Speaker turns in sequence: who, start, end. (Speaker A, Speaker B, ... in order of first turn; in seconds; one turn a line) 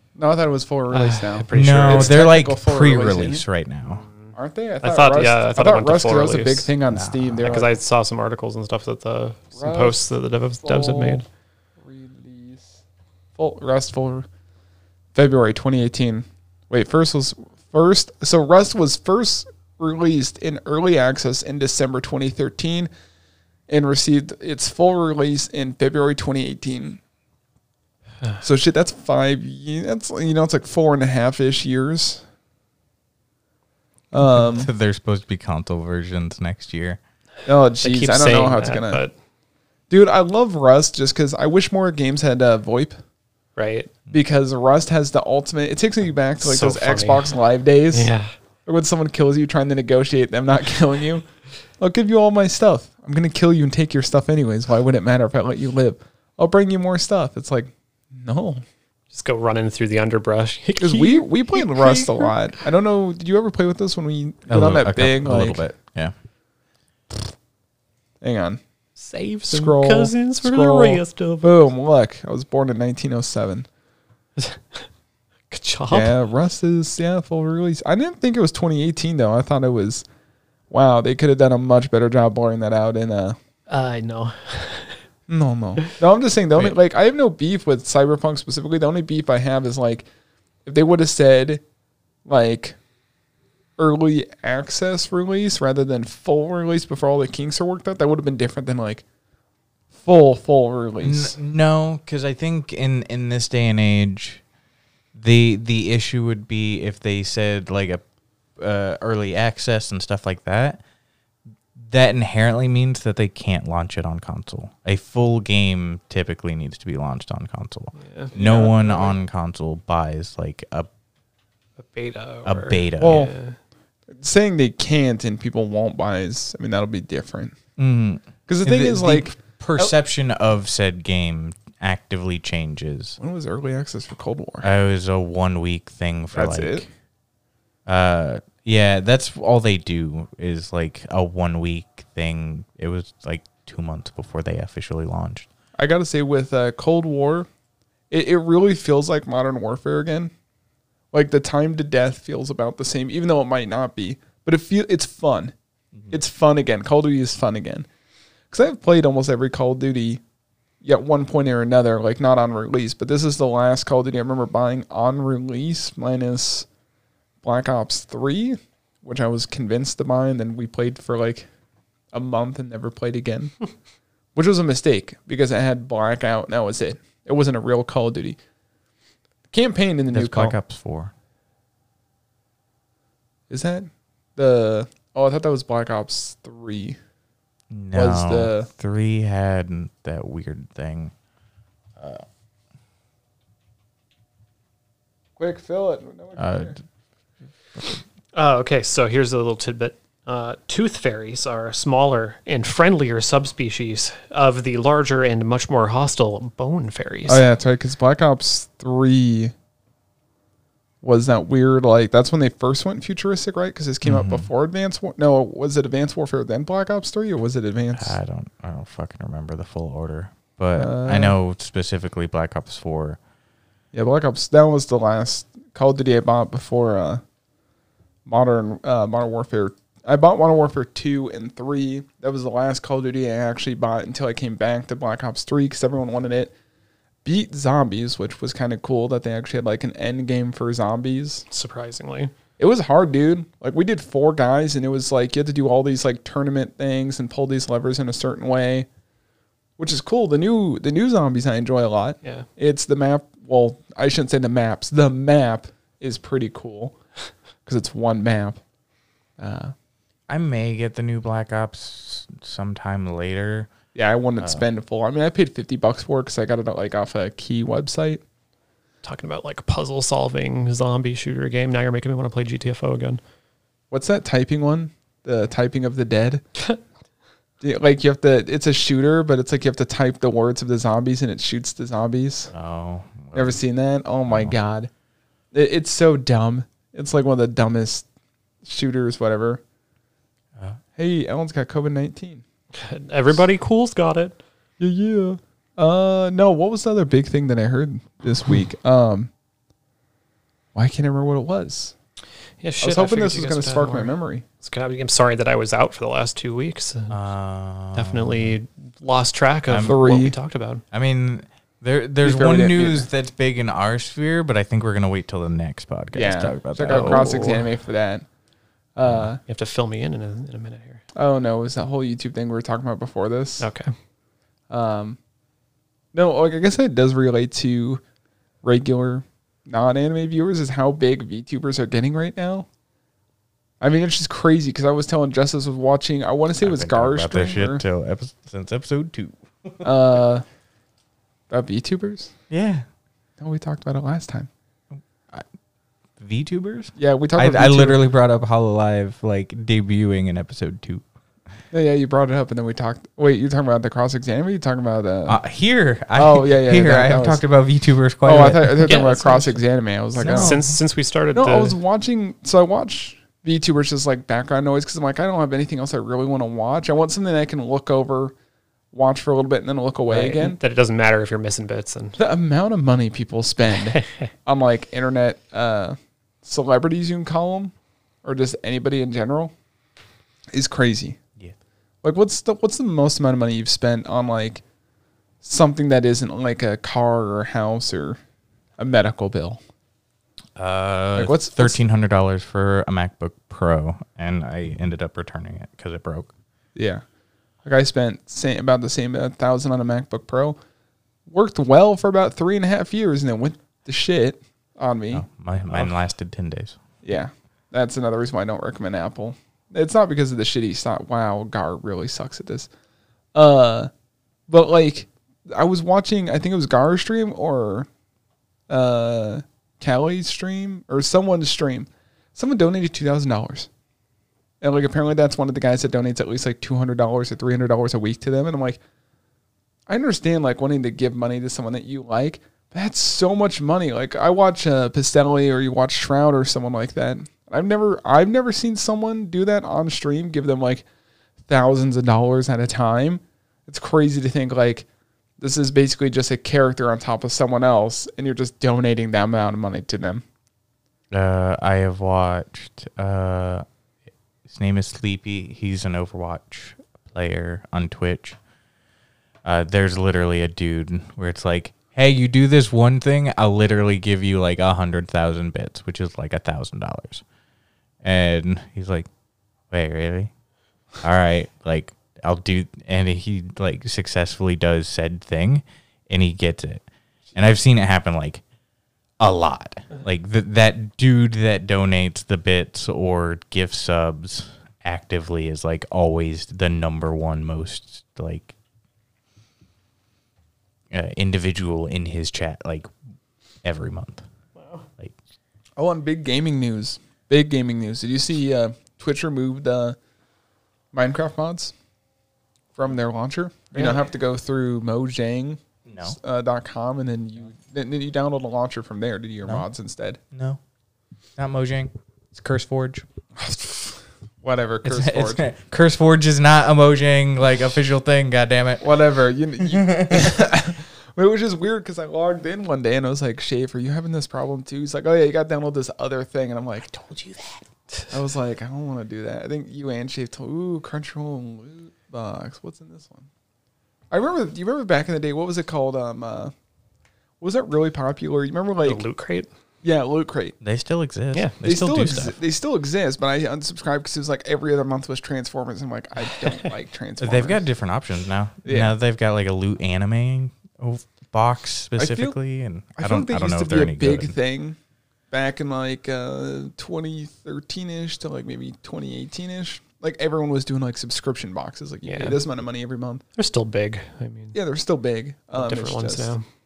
Speaker A: 0.1-3.4
Speaker B: 0.9-2.2
Speaker C: 1.5-4.0
Speaker B: 3.9-6.7
Speaker A: 4.3-7.7
Speaker C: 6.9-7.6
Speaker B: 7.4-11.2
Speaker A: 9.6-10.0
Speaker A: 10.6-11.2
Speaker A: 11.8-12.8
Speaker A: 13.3-14.3
Speaker A: 15.1-22.9
Speaker A: 23.7-27.0
Speaker A: 28.4-32.2
Speaker A: 34.1-34.7
Speaker C: 34.3-37.0
Speaker A: 37.5-39.0
Speaker B: 37.8-39.1
Speaker A: 39.9-43.0
Speaker B: 43.5-43.9
Speaker A: 44.1-48.1
Speaker B: 46.4-47.4
Speaker B: 47.9-48.3
Speaker A: 48.6-51.2
Speaker A: 51.8-58.6
Speaker B: 59.1-62.3
Speaker A: 60.8-65.6
Speaker C: 64.5-66.1
Speaker A: 68.2-68.6
Speaker B: 69.0-71.6
Speaker A: 69.5-73.7
Speaker B: 74.4-74.8
Speaker B: 75.5-76.1
Speaker A: 75.9-80.0
Speaker A: 80.7-83.4
Speaker B: 83.7-85.0
Speaker A: 85.3-90.1
Speaker A: 90.7-91.6
Speaker A: 92.2-92.8
Speaker A: 93.8-99.0
Speaker A: 99.9-101.3
Speaker C: 101.0-104.4
Speaker C: 105.1-108.0
Speaker C: 108.6-110.8
Speaker C: 111.8-120.9
Speaker B: 118.0-118.3
Speaker A: 118.3-119.2
Speaker B: 121.8-123.6
Speaker C: 122.5-123.3
Speaker A: 123.0-123.3
Speaker A: 124.1-127.5
Speaker C: 127.8-133.2
Speaker A: 128.5-129.9
Speaker A: 133.2-134.7
Speaker C: 134.6-136.9
Speaker A: 136.3-136.8
Speaker C: 137.8-145.5
Speaker A: 145.8-147.5
Speaker A: 148.1-150.3
Speaker A: 151.1-155.5
Speaker A: 156.1-157.9
Speaker A: 158.5-160.2
Speaker A: 160.8-166.7
Speaker A: 167.4-171.5
Speaker A: 172.1-173.5
Speaker A: 174.3-178.4
Speaker A: 179.5-180.6
Speaker C: 180.1-181.1
Speaker A: 183.5-187.0
Speaker C: 187.7-191.1
Speaker A: 187.9-188.7
Speaker C: 192.0-192.2
Speaker A: 195.4-196.8
Speaker C: 196.4-196.8
Speaker B: 198.3-207.4
Speaker A: 207.2-209.5
Speaker A: 211.0-218.2
Speaker C: 214.0-214.5
Speaker C: 217.9-223.2
Speaker A: 220.8-221.3
Speaker A: 223.9-227.2
Speaker A: 228.2-236.5
Speaker A: 237.2-241.4
Speaker B: 241.5-242.3
Speaker A: 242.6-248.9
Speaker A: 249.8-256.9
Speaker A: 257.6-258.6
Speaker A: 259.4-259.7
Speaker C: 260.3-263.7
Speaker A: 263.9-268.2
Speaker C: 264.4-264.6
Speaker B: 269.0-273.2
Speaker A: 273.9-276.4
Speaker A: 277.6-282.5
Speaker C: 282.5-283.6
Speaker A: 283.3-284.9
Speaker C: 284.3-284.5
Speaker A: 285.5-288.1
Speaker A: 288.6-289.6
Speaker A: 290.9-292.4
Speaker B: 292.7-294.4
Speaker A: 294.8-299.3
Speaker A: 300.7-301.9
Speaker B: 302.6-307.2
Speaker A: 302.8-304.4
Speaker C: 307.1-308.5
Speaker B: 307.9-310.8
Speaker C: 309.7-310.0
Speaker A: 309.8-310.4
Speaker C: 310.9-317.5
Speaker A: 312.2-313.1
Speaker A: 316.1-318.3
Speaker B: 316.9-317.6
Speaker A: 318.9-319.4
Speaker B: 319.4-321.0
Speaker A: 321.1-323.7
Speaker B: 323.6-323.9
Speaker A: 324.7-325.2
Speaker A: 326.1-328.0
Speaker A: 328.6-332.7
Speaker A: 333.8-337.8
Speaker C: 336.6-339.9
Speaker A: 339.8-340.4
Speaker A: 341.5-342.3
Speaker C: 342.5-342.9
Speaker A: 343.4-344.5
Speaker C: 346.2-351.0
Speaker A: 346.9-348.0
Speaker A: 351.7-355.4
Speaker C: 355.3-359.0
Speaker A: 356.1-357.4
Speaker A: 358.2-360.6
Speaker B: 358.8-359.6
Speaker C: 360.2-360.8
Speaker B: 360.2-361.8
Speaker A: 361.3-368.3
Speaker A: 368.9-370.6
Speaker B: 370.1-372.2
Speaker A: 372.2-377.7
Speaker B: 373.9-374.3
Speaker A: 378.2-379.5
Speaker A: 380.5-381.2
Speaker A: 382.0-384.6
Speaker A: 385.4-388.2
Speaker A: 388.8-389.6
Speaker C: 390.6-396.3
Speaker A: 391.1-391.8
Speaker A: 396.7-397.0
Speaker A: 397.6-400.6
Speaker A: 401.3-405.9
Speaker C: 405.1-406.8
Speaker A: 407.0-412.7
Speaker A: 413.3-413.9
Speaker A: 414.5-417.9
Speaker A: 418.7-423.7
Speaker A: 424.6-428.8
Speaker A: 429.9-440.9
Speaker A: 441.5-444.9
Speaker A: 445.4-450.2
Speaker C: 451.1-453.6
Speaker C: 454.4-458.4
Speaker C: 459.4-467.2
Speaker C: 468.0-469.1
Speaker C: 469.7-470.3
Speaker C: 471.0-478.4
Speaker C: 479.2-488.5
Speaker C: 490.9-492.9
Speaker C: 493.6-494.2
Speaker B: 494.6-494.8
Speaker A: 495.8-500.0
Speaker A: 500.9-501.7
Speaker A: 502.7-510.2
Speaker B: 503.7-504.0
Speaker C: 505.9-506.2
Speaker C: 510.3-510.6
Speaker C: 511.4-513.0
Speaker A: 513.4-515.4
Speaker C: 514.8-518.9
Speaker A: 518.8-526.9
Speaker C: 519.6-520.4
Speaker C: 526.9-527.6
Speaker A: 528.1-533.3
Speaker A: 534.1-536.5
Speaker A: 537.4-539.0
Speaker B: 538.8-539.5
Speaker A: 539.8-540.5
Speaker C: 540.6-542.3
Speaker B: 541.3-542.3
Speaker A: 541.6-547.6
Speaker B: 546.4-546.7
Speaker C: 547.2-554.3
Speaker A: 548.6-548.9
Speaker A: 552.0-552.4
Speaker A: 553.0-554.8
Speaker A: 555.3-563.2
Speaker B: 562.0-562.4
Speaker B: 563.4-564.6
Speaker A: 564.5-566.3
Speaker B: 565.5-566.4